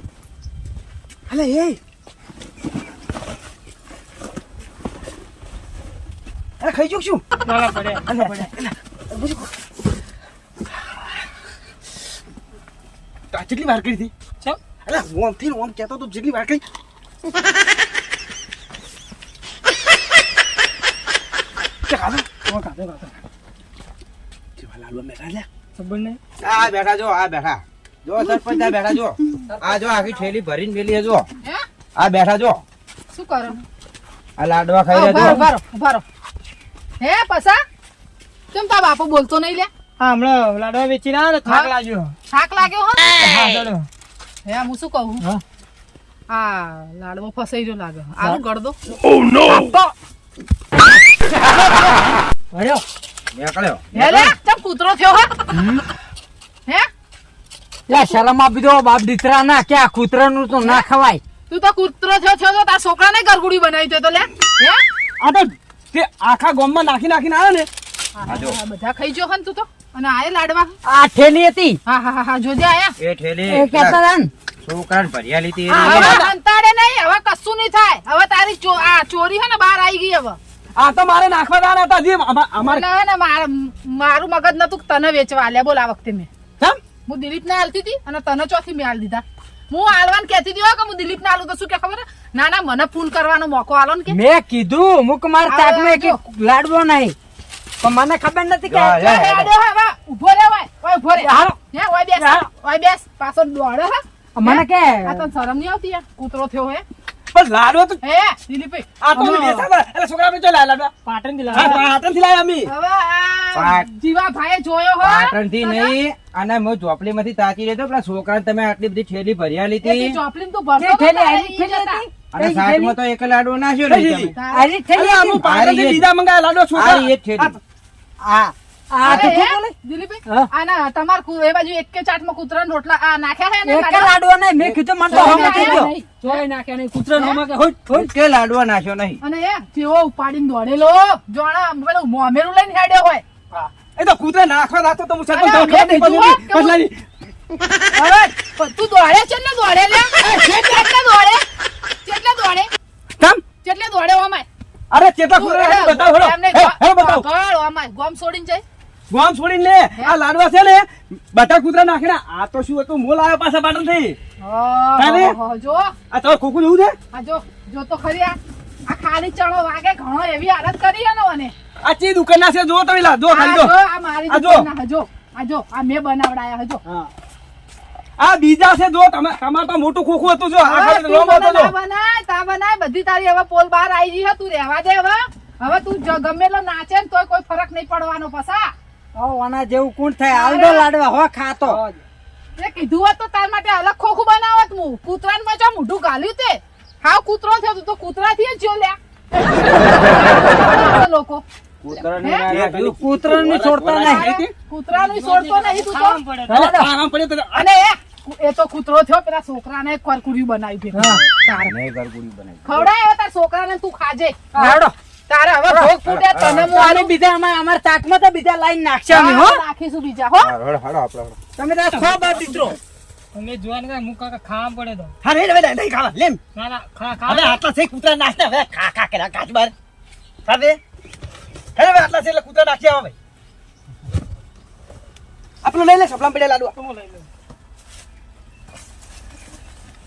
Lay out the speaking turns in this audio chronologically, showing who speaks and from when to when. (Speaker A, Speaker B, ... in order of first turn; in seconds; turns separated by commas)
Speaker A: 1.3-1.8, Speaker A: 6.6-7.2, Speaker B: 7.5-8.5, Speaker A: 8.0-9.5, Speaker A: 13.3-14.1, Speaker A: 14.8-16.6, Speaker A: 21.9-22.4, Speaker B: 22.5-23.1, Speaker A: 24.6-25.5, Speaker B: 25.8-26.2, Speaker C: 26.4-31.2, Speaker C: 32.0-32.6, Speaker D: 33.1-33.6, Speaker C: 34.4-35.4, Speaker D: 34.9-36.0, Speaker D: 37.0-37.6, Speaker D: 38.5-39.7, Speaker B: 40.0-42.1, Speaker D: 41.4-41.7, Speaker D: 42.3-43.1, Speaker B: 43.1-43.9, Speaker E: 43.3-43.6, Speaker D: 44.5-45.2, Speaker D: 46.3-48.8, Speaker E: 49.4-49.9, Speaker E: 52.5-52.8, Speaker C: 53.3-53.9, Speaker D: 53.9-55.3, Speaker E: 54.0-54.3, Speaker E: 57.9-61.2, Speaker D: 57.9-58.2, Speaker D: 60.6-60.8, Speaker D: 61.5-64.8, Speaker A: 65.2-67.7, Speaker D: 68.2-70.7, Speaker C: 68.3-68.6, Speaker E: 70.8-71.8, Speaker D: 71.9-72.9, Speaker C: 73.0-74.0, Speaker E: 73.5-74.3, Speaker C: 74.6-76.2, Speaker A: 75.7-76.3, Speaker D: 75.8-80.4, Speaker A: 80.8-82.8, Speaker D: 82.6-86.3, Speaker D: 87.1-94.2, Speaker E: 94.1-97.2, Speaker D: 95.5-96.2, Speaker E: 97.8-99.0, Speaker C: 98.7-99.5, Speaker D: 98.9-106.8, Speaker E: 101.2-101.5, Speaker E: 104.3-105.2, Speaker A: 107.3-108.0, Speaker D: 108.0-108.9, Speaker A: 109.0-110.9, Speaker B: 109.2-109.6, Speaker B: 111.0-111.8, Speaker A: 111.5-112.7, Speaker D: 112.7-115.9, Speaker C: 113.5-113.9, Speaker C: 115.0-120.2, Speaker D: 119.8-122.0, Speaker E: 120.8-122.9, Speaker C: 122.3-124.3, Speaker A: 123.9-124.3, Speaker D: 124.3-124.7, Speaker E: 124.5-125.4, Speaker A: 124.9-127.6, Speaker C: 125.4-126.1, Speaker C: 126.7-127.5, Speaker E: 128.2-129.7, Speaker D: 129.0-134.1, Speaker C: 129.0-129.3, Speaker E: 133.6-135.9, Speaker A: 134.6-135.6, Speaker D: 135.1-136.4, Speaker B: 135.3-138.0, Speaker E: 136.5-136.8, Speaker D: 137.1-137.4, Speaker C: 137.9-139.2, Speaker D: 139.2-143.2, Speaker A: 143.5-147.0, Speaker D: 145.3-146.8, Speaker D: 147.9-151.4, Speaker A: 150.2-150.9, Speaker D: 152.0-152.7, Speaker D: 153.6-154.5, Speaker A: 154.9-157.2, Speaker D: 155.3-158.6, Speaker A: 159.1-164.2, Speaker D: 164.4-165.9, Speaker A: 165.0-165.3, Speaker A: 166.1-166.9, Speaker D: 167.1-171.5, Speaker A: 171.8-173.7, Speaker D: 173.3-176.8, Speaker A: 174.3-174.7, Speaker A: 178.2-181.7, Speaker D: 180.6-188.7, Speaker E: 189.1-191.8, Speaker D: 190.3-190.8, Speaker D: 192.6-201.4, Speaker C: 201.8-203.0, Speaker D: 201.9-202.5, Speaker A: 202.5-204.5, Speaker E: 203.0-204.3, Speaker D: 204.0-206.2, Speaker B: 204.9-206.6, Speaker A: 206.5-207.7, Speaker E: 206.5-206.9, Speaker D: 207.5-211.7, Speaker B: 210.9-211.2, Speaker C: 211.5-212.9, Speaker D: 212.6-214.6, Speaker E: 214.5-214.9, Speaker D: 215.3-217.1, Speaker E: 215.7-215.9, Speaker C: 216.0-216.7, Speaker E: 216.7-219.6, Speaker D: 219.1-220.5, Speaker C: 220.4-221.4, Speaker E: 221.6-222.8, Speaker B: 223.3-225.1, Speaker A: 225.2-226.4, Speaker B: 226.6-227.6, Speaker A: 227.2-229.7, Speaker A: 230.5-230.8, Speaker A: 231.8-233.1, Speaker A: 235.6-236.9